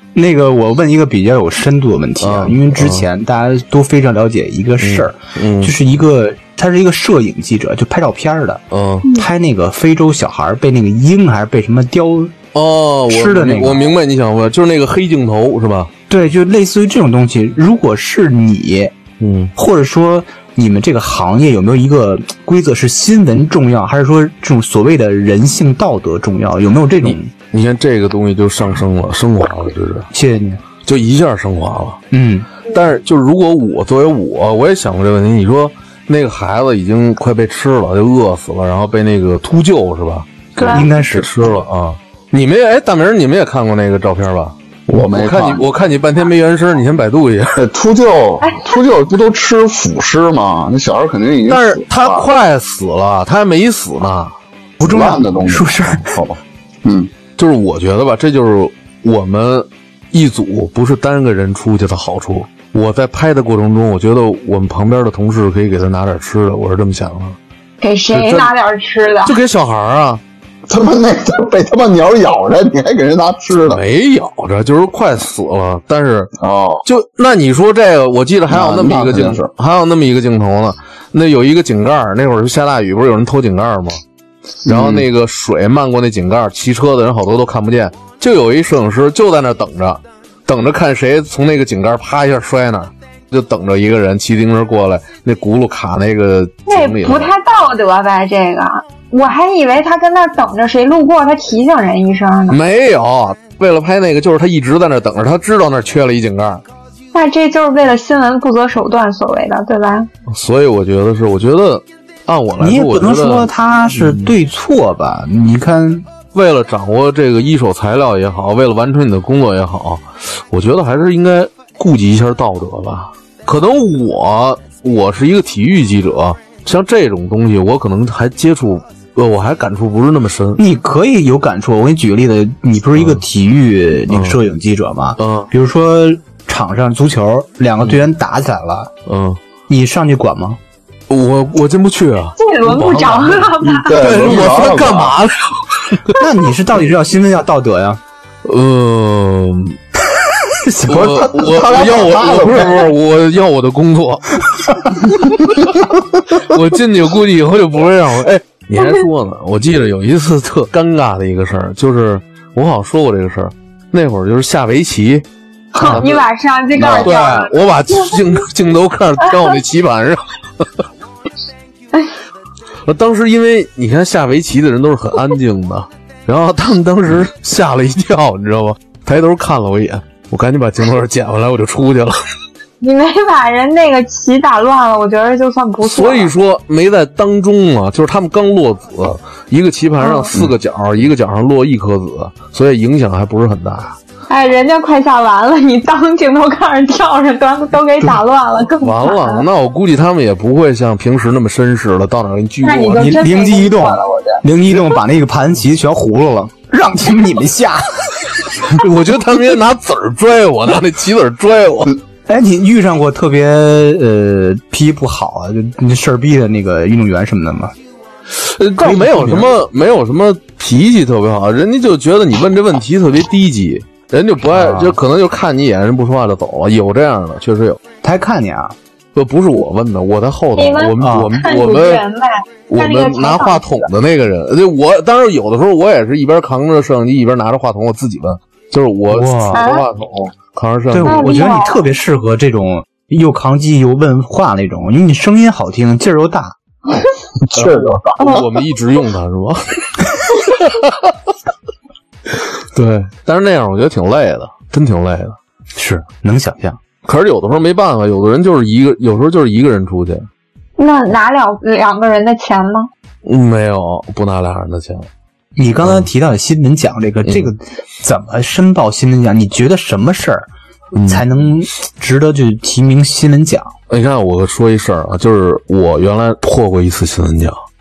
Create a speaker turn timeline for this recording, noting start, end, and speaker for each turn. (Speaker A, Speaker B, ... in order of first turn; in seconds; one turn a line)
Speaker A: 0.1-12.3
Speaker B: 2.2-3.0
Speaker B: 4.8-5.7
Speaker B: 8.7-9.1
Speaker B: 12.5-15.9
Speaker A: 13.1-13.8
Speaker A: 16.1-18.9
Speaker B: 19.2-19.5
Speaker A: 19.6-27.3
Speaker B: 27.0-30.1
Speaker A: 30.1-30.6
Speaker B: 30.8-32.0
Speaker A: 32.1-32.5
Speaker B: 32.6-47.6
Speaker A: 40.6-41.4
Speaker C: 40.6-40.9
Speaker D: 44.9-45.6
Speaker D: 47.6-52.3
Speaker C: 48.4-48.7
Speaker B: 51.5-54.3
Speaker A: 54.8-56.1
Speaker D: 54.8-57.1
Speaker B: 57.4-67.4
Speaker C: 67.8-69.3
Speaker B: 68.1-68.5
Speaker B: 69.2-70.2
Speaker D: 70.7-73.8
Speaker B: 73.7-76.3
Speaker D: 76.4-76.8
Speaker B: 76.8-84.0
Speaker D: 78.5-79.5
Speaker D: 84.7-85.0
Speaker B: 84.7-97.3
Speaker C: 96.7-102.6
Speaker B: 102.5-106.6
Speaker C: 107.1-110.1
Speaker B: 110.3-114.3
Speaker A: 112.6-116.1
Speaker B: 116.3-130.6
Speaker A: 130.6-138.9
Speaker B: 132.9-133.2
Speaker B: 134.1-134.4
Speaker B: 135.2-135.5
Speaker B: 139.1-139.4
Speaker A: 139.7-140.6
Speaker B: 141.1-146.2
Speaker C: 142.4-144.4
Speaker D: 143.6-145.2
Speaker A: 146.2-148.0
Speaker B: 148.4-149.8
Speaker A: 150.4-151.6
Speaker B: 150.8-155.1
Speaker D: 151.4-152.9
Speaker B: 156.3-165.3
Speaker A: 165.7-166.0
Speaker C: 165.8-168.2
Speaker B: 165.8-166.2
Speaker D: 166.7-167.2
Speaker B: 167.0-170.7
Speaker B: 172.8-182.2
Speaker C: 182.8-186.3
Speaker B: 185.8-194.0
Speaker C: 190.0-190.3
Speaker C: 194.3-199.4
Speaker B: 198.8-203.2
Speaker C: 202.6-204.4
Speaker A: 203.0-208.3
Speaker B: 208.6-211.9
Speaker A: 212.3-217.7
Speaker B: 218.3-227.8
Speaker A: 218.8-219.5
Speaker A: 224.5-225.0
Speaker A: 228.0-228.7
Speaker B: 229.1-232.0
Speaker C: 230.6-233.9
Speaker A: 231.0-231.3
Speaker B: 232.7-241.4
Speaker A: 239.1-239.6
Speaker C: 239.6-239.8
Speaker A: 240.9-246.6
Speaker C: 241.0-241.8
Speaker D: 247.4-248.4
Speaker B: 247.5-250.9
Speaker B: 252.4-255.4
Speaker A: 255.7-256.8
Speaker B: 257.1-260.3
Speaker C: 260.8-262.9
Speaker B: 263.2-265.1
Speaker A: 265.6-270.5
Speaker B: 270.9-271.2
Speaker A: 271.0-273.7
Speaker B: 273.9-277.6